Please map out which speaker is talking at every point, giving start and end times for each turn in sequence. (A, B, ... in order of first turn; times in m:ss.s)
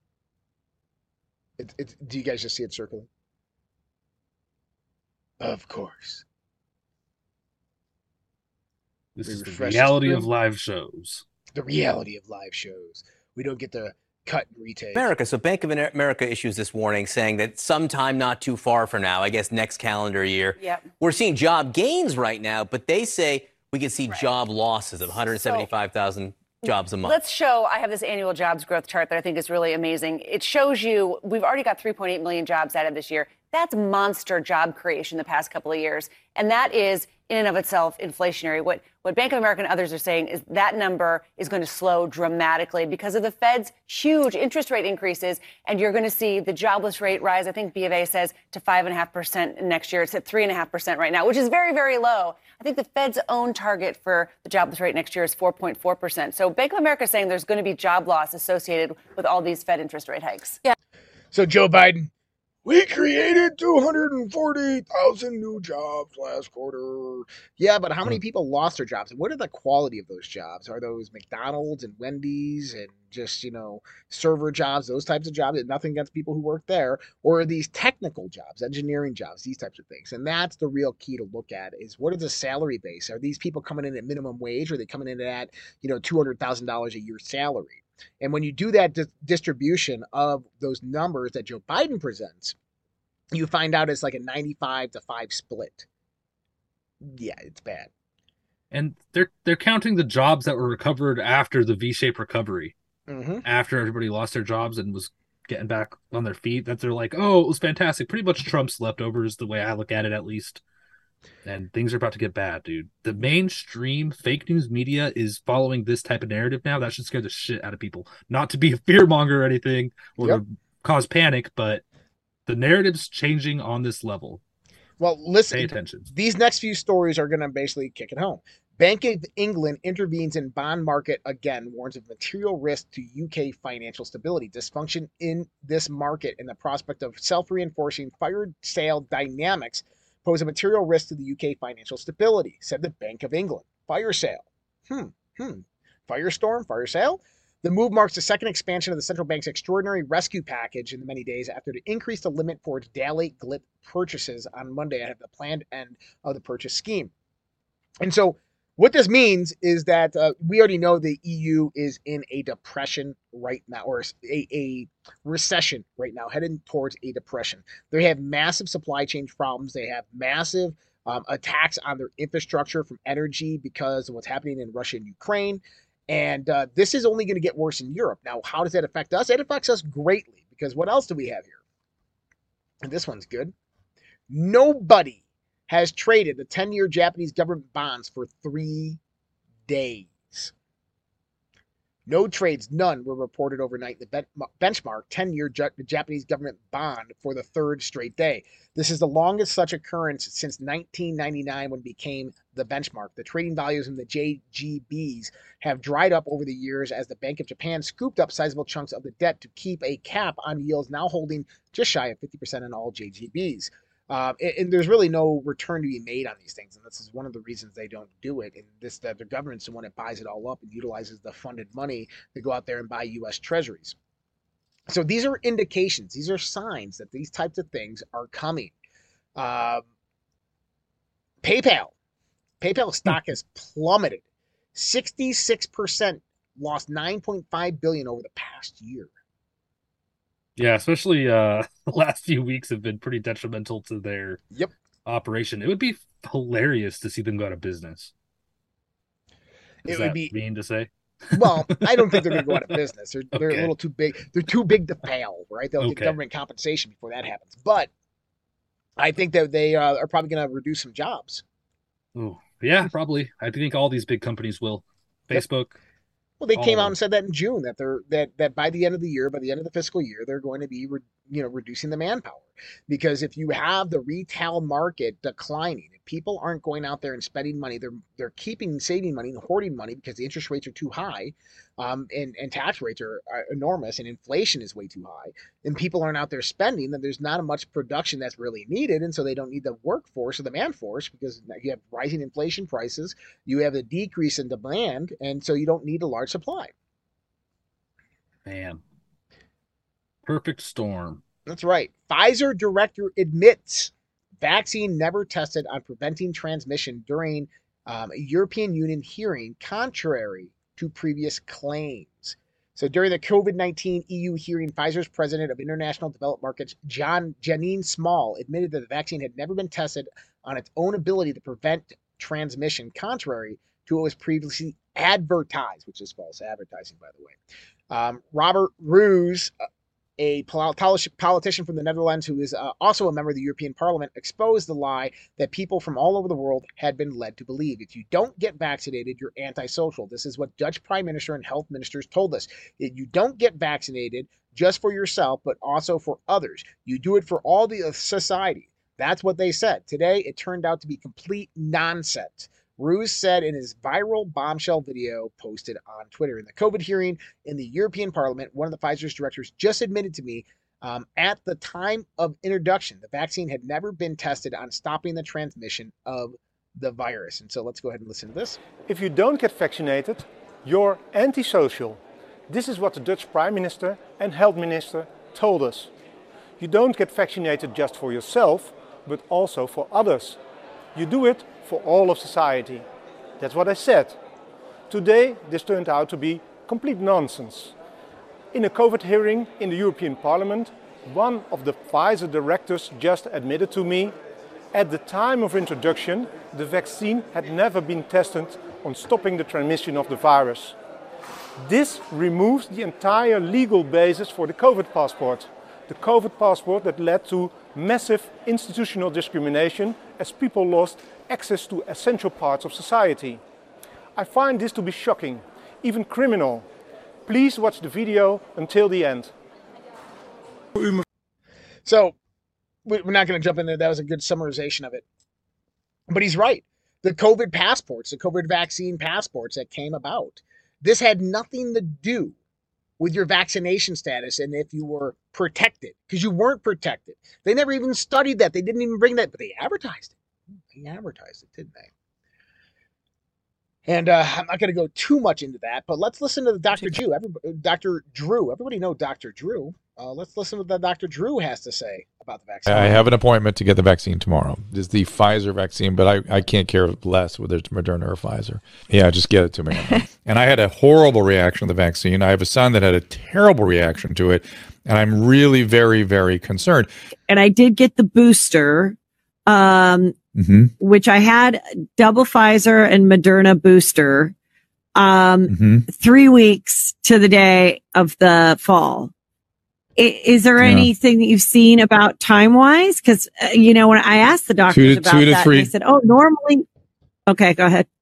0:01.6-0:03.1 A
0:05.4-0:06.2 A
0:09.2-0:11.2 B
0:09.2-0:10.3 A
0:11.6-0:15.1 A
0:14.9-0:27.2 C
0:20.6-0:20.9 D
0:25.2-0:25.7 D
0:27.0-1:00.6 D
1:01.3-1:02.1 A
1:02.6-1:32.6 A
1:33.3-1:35.9 A
1:37.0-1:37.9 A
1:38.7-1:42.7 B
1:43.1-1:43.4 A
1:43.4-1:50.6 B
1:51.4-2:01.8 B
2:02.4-2:04.4 B
2:05.0-2:37.1 A
2:05.5-2:06.1 B
2:38.0-3:01.6 A
3:02.8-3:03.5 A
3:04.3-3:09.0 A
3:09.7-3:10.5 A
3:12.1-3:44.0 A
3:44.9-3:48.7 A
3:49.4-3:49.8 A
3:51.4-3:51.9 A
3:52.6-3:54.2 A
3:54.7-3:59.1 A
4:00.6-4:04.4 B
4:05.0-4:08.1 B
4:09.8-4:10.3 A
4:09.9-4:12.6 B
4:11.3-4:17.9 A
4:13.3-4:13.7 B
4:15.8-4:16.2 B
4:19.0-4:21.4 A
4:22.1-4:25.8 B
4:26.4-4:56.7 A
4:26.6-4:27.0 B
4:58.4-4:58.8 B
5:00.2-5:01.2 B
5:01.5-5:27.4 A
5:27.9-5:29.5 A
5:30.2-6:08.6 A
6:08.9-6:15.9 E
6:16.6-6:20.4 E
6:21.0-6:22.9 E
6:23.4-6:24.2 E
6:24.9-6:27.7 E
6:28.5-6:34.1 E
6:34.7-6:40.8 E
6:41.6-6:53.4 E
6:54.2-6:56.7 E
6:57.3-6:59.3 E
7:01.9-7:02.2 A
7:02.9-7:05.0 A
7:06.1-7:12.4 A
7:13.0-7:20.2 A
7:20.7-7:21.9 A
7:23.9-7:33.1 A
7:32.7-7:46.9 F
7:47.3-7:49.0 G
7:49.5-7:50.2 G
7:50.4-7:50.7 F
7:50.8-7:54.3 G
7:55.0-7:59.1 G
7:55.5-7:55.8 F
8:00.0-8:06.7 G
8:00.6-8:00.9 F
8:04.7-8:05.7 F
8:07.3-8:07.9 G